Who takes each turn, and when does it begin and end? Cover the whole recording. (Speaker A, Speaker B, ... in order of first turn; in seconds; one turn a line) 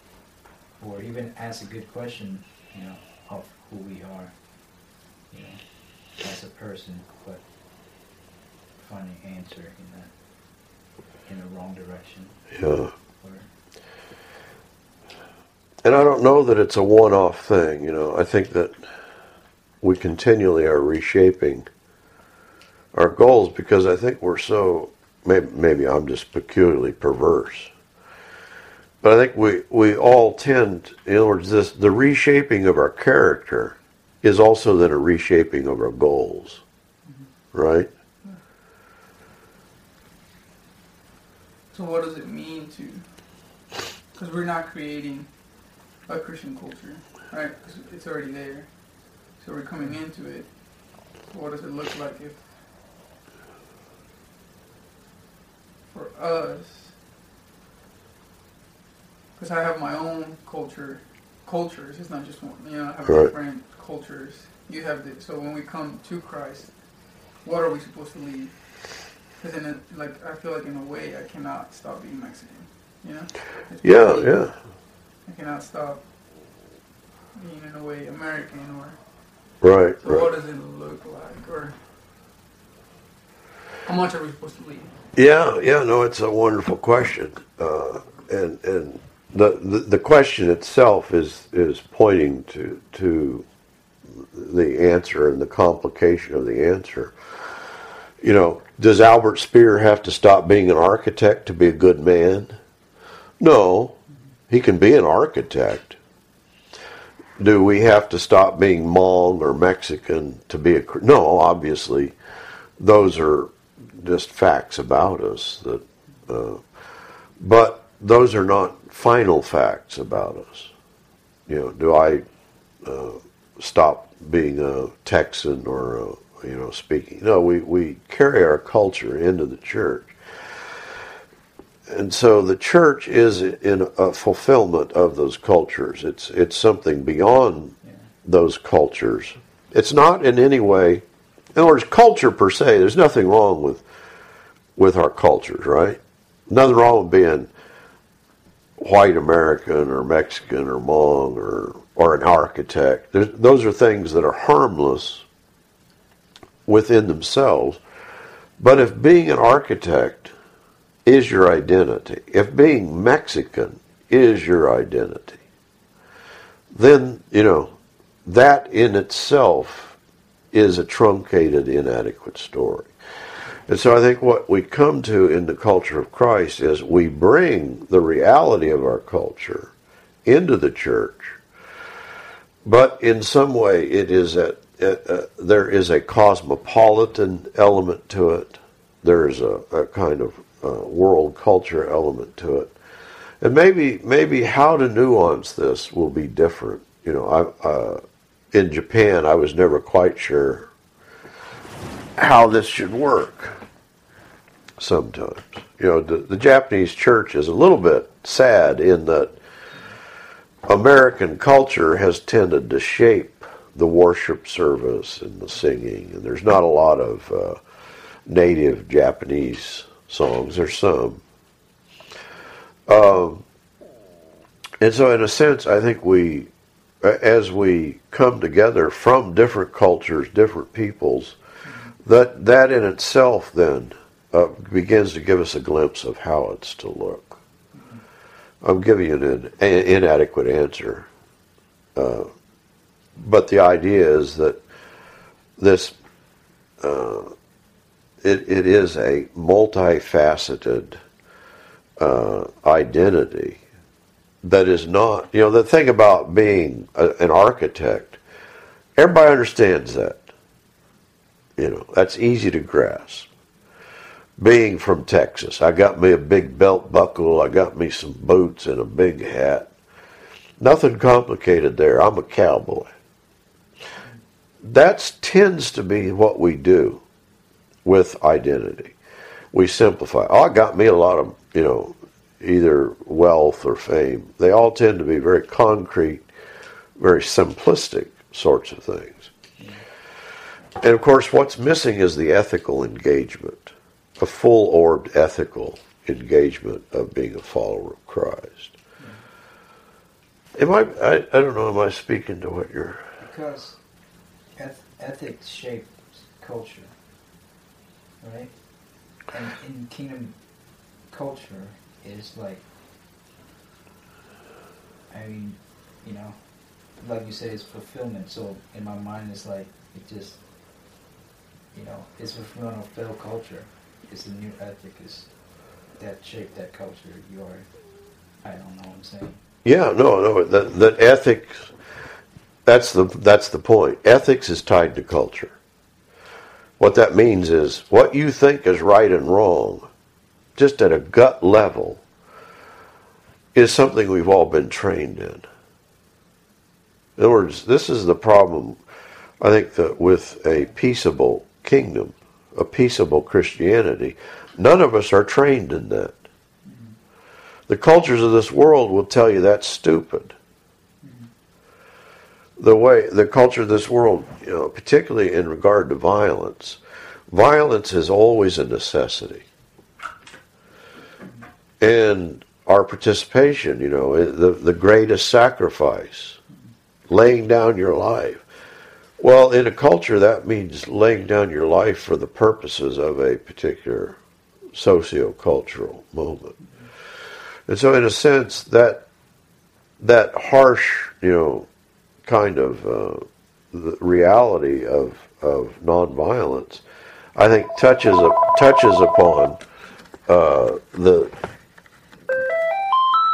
Speaker A: 0.8-4.3
Speaker A: 5.3-5.6
Speaker A: 6.2-7.4
Speaker A: 8.8-10.1
Speaker A: 11.2-12.5
Speaker B: 12.5-12.9
Speaker A: 13.2-13.5
Speaker B: 15.8-18.8
Speaker B: 19.8-21.7
Speaker B: 22.9-27.7
Speaker B: 29.0-36.6
Speaker B: 37.5-37.9
Speaker C: 41.7-43.0
Speaker C: 44.1-45.3
Speaker C: 46.1-48.7
Speaker C: 49.4-50.5
Speaker C: 51.2-52.4
Speaker C: 55.9-56.9
Speaker C: 59.4-66.7
Speaker B: 63.0-63.3
Speaker C: 67.4-68.5
Speaker C: 69.4-74.3
Speaker B: 73.8-74.5
Speaker C: 75.2-76.0
Speaker C: 77.3-79.0
Speaker B: 79.6-80.3
Speaker C: 80.0-81.8
Speaker C: 83.8-84.9
Speaker B: 85.1-93.5
Speaker B: 94.2-97.1
Speaker B: 98.2-102.6
Speaker B: 103.4-104.0
Speaker B: 104.5-106.0
Speaker B: 107.4-112.1
Speaker B: 112.8-116.6
Speaker B: 117.4-120.7
Speaker B: 121.5-122.2
Speaker B: 122.8-130.2
Speaker B: 131.9-141.0
Speaker B: 141.5-143.8
Speaker B: 144.8-147.5
Speaker B: 148.8-155.2
Speaker B: 156.7-157.8
Speaker B: 158.6-160.3
Speaker B: 161.0-165.4
Speaker B: 166.7-167.7
Speaker B: 168.2-169.9
Speaker B: 170.5-172.9
Speaker B: 173.7-179.7
Speaker B: 180.2-181.4
Speaker B: 182.6-192.7
Speaker B: 193.4-200.7
Speaker B: 202.2-203.6
Speaker B: 204.8-209.3
Speaker B: 210.7-217.6
Speaker B: 218.2-221.2
Speaker B: 222.9-223.4
Speaker B: 224.8-226.5
Speaker B: 227.0-231.4
Speaker A: 231.6-231.9
Speaker B: 232.0-237.4
Speaker A: 237.7-238.0
Speaker B: 238.6-241.1
Speaker B: 241.9-242.3
Speaker B: 243.2-244.6
Speaker B: 245.6-245.9
Speaker B: 246.8-247.3
Speaker B: 248.2-251.0
Speaker B: 252.0-253.6
Speaker B: 254.4-258.2
Speaker B: 259.0-260.3
Speaker B: 261.6-263.3
Speaker B: 264.4-269.7
Speaker B: 270.6-272.9
Speaker B: 274.6-277.0
Speaker B: 277.8-278.9
Speaker B: 279.5-286.3
Speaker B: 287.0-289.3
Speaker A: 289.6-289.8
Speaker B: 290.8-298.7
Speaker B: 300.6-303.0
Speaker A: 303.2-303.8
Speaker A: 304.6-306.9
Speaker A: 308.2-308.5
Speaker A: 309.3-310.4
Speaker A: 311.1-312.6
Speaker A: 315.1-316.4
Speaker A: 317.0-320.4
Speaker A: 321.7-325.3
Speaker A: 326.0-327.7
Speaker A: 328.4-329.4
Speaker B: 329.6-331.7
Speaker B: 332.6-335.5
Speaker B: 336.8-339.9
Speaker B: 340.6-342.0
Speaker B: 343.5-345.4
Speaker B: 347.2-348.8
Speaker B: 349.4-356.2
Speaker A: 356.6-357.0
Speaker B: 357.7-360.4
Speaker A: 361.0-361.3
Speaker B: 362.6-366.8
Speaker B: 367.3-369.4
Speaker B: 371.8-376.4
Speaker B: 377.1-378.4
Speaker B: 379.2-384.2
Speaker B: 384.7-386.6
Speaker B: 387.7-389.0
Speaker B: 390.0-391.7
Speaker B: 392.2-396.8
Speaker B: 397.4-399.6
Speaker B: 400.3-401.3